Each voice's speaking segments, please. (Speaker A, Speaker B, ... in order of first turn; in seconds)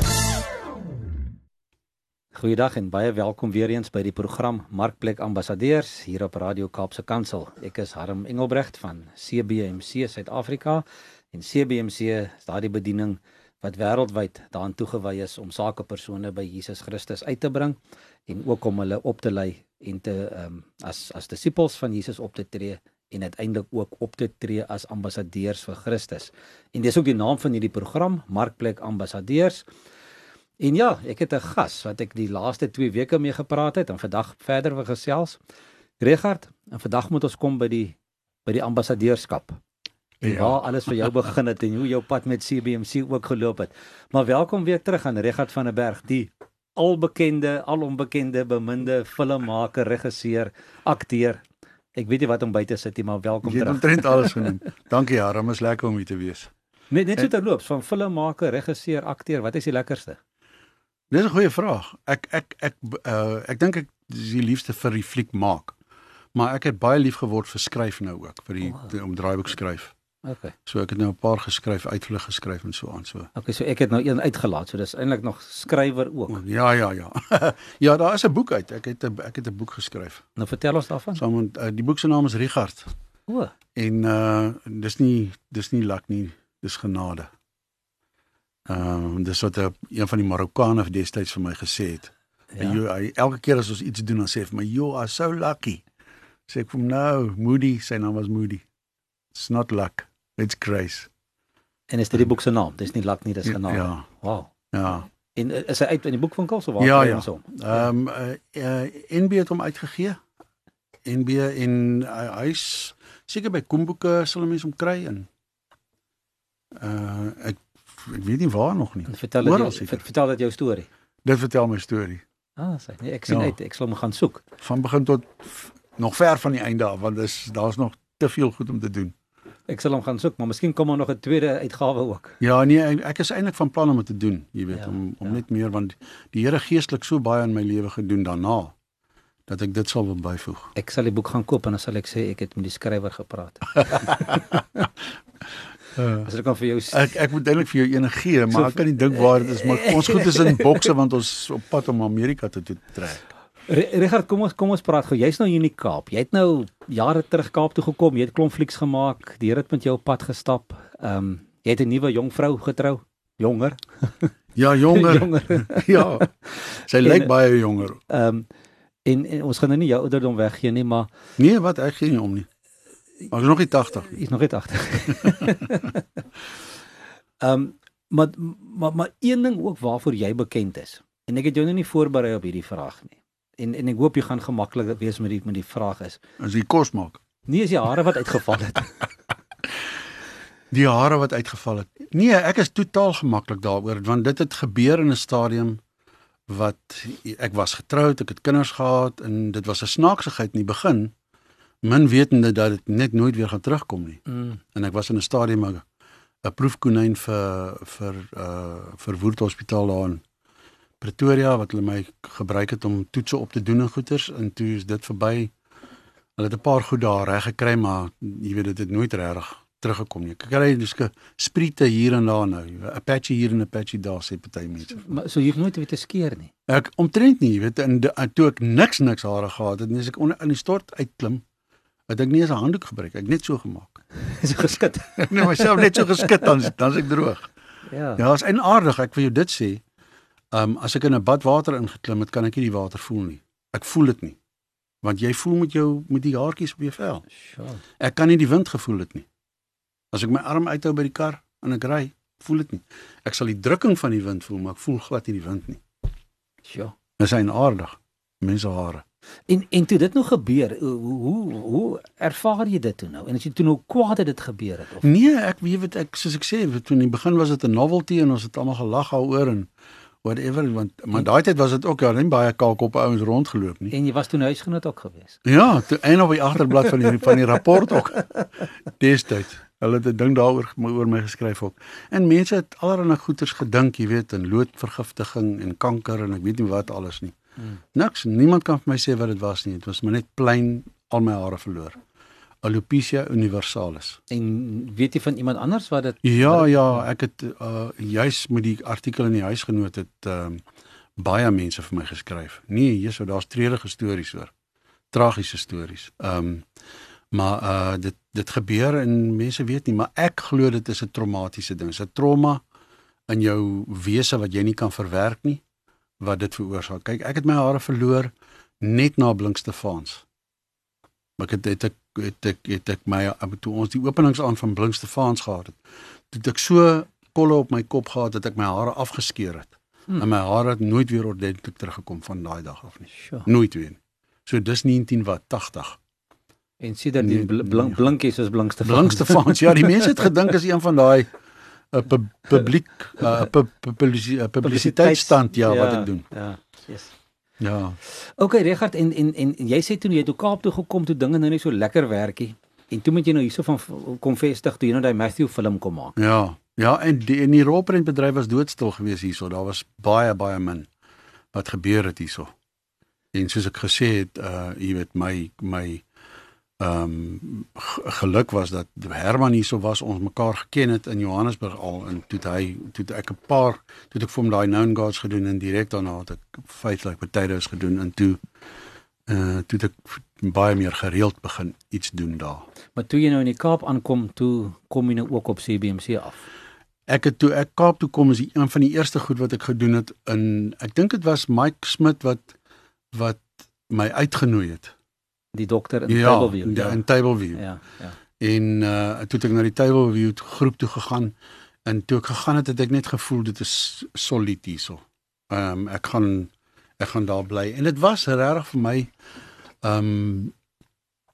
Speaker A: 2.3-29.7, 30.6-35.4, 36.0-39.6, 40.2-51.4, 52.0-54.5, 56.9-60.2, 70.2-70.5, 73.3-76.4, 80.4-81.2, 83.3-83.5, 92.5-92.8, 101.9-104.5, 105.3-107.9, 119.1-120.9, 122.6-124.4, 129.7-132.4, 134.7-135.4, 140.8-144.9, 146.2-147.2, 148.5-150.9, 153.7-164.3, 164.8-167.3, 168.1-168.5, 169.1-171.1, 174.0-176.0, 177.4-186.2, 187.5-188.9, 224.9-226.5, 234.2-236.1, 237.9-238.2, 247.4-247.8, 256.7-256.9, 259.5-265.1, 273.9-275.4, 294.3-297.1, 333.2-333.5, 336.8-340.3, 344.6-347.1, 348.1-356.1, 382.9-386.4, 395.5-398.2
Speaker B: 40.2-40.7, 53.4-56.5, 61.1-65.7, 66.3-69.9, 70.7-73.3, 76.3-80.2, 81.2-82.9, 83.8-87.3, 88.7-95.8, 96.5-98.7, 99.3-101.1, 103.5-104.1, 104.7-105.1, 106.8-110.2, 111.1-115.3, 116.8-120.0, 121.2-122.2, 123.3-123.6, 124.6-129.1, 132.4-138.8, 139.5-140.7, 146.0-146.2, 146.9-153.2, 164.6-166.3, 166.9-168.0, 171.4-172.5, 173.3-174.2, 186.4-187.2, 190.7-195.8, 196.5-201.1, 201.8-204.2, 204.7-205.8, 206.4-210.2, 211.0-215.5, 216.4-225.1, 226.7-231.4, 232.1-234.0, 235.2-237.5, 238.2-239.8, 240.5-244.4, 245.0-247.2, 248.0-249.3, 250.1-255.8, 257.2-259.0, 265.0-269.7, 270.2-273.9, 275.4-278.4, 278.9-287.3, 287.9-292.0, 292.6-294.2, 296.2-300.6, 301.2-304.5, 305.1-306.6, 307.3-312.6, 313.3-315.6, 316.2-320.2, 321.4-325.8, 326.3-336.0, 337.2-338.1, 338.8-341.3, 341.9-346.2, 347.6-348.0, 356.2-360.9, 361.5-362.5, 363.3-366.0, 366.8-378.4, 379.3-382.6, 387.1-392.5, 393.1-394.9, 396.1-397.6, 398.4-401.3, 401.9-409.1, 409.8-410.5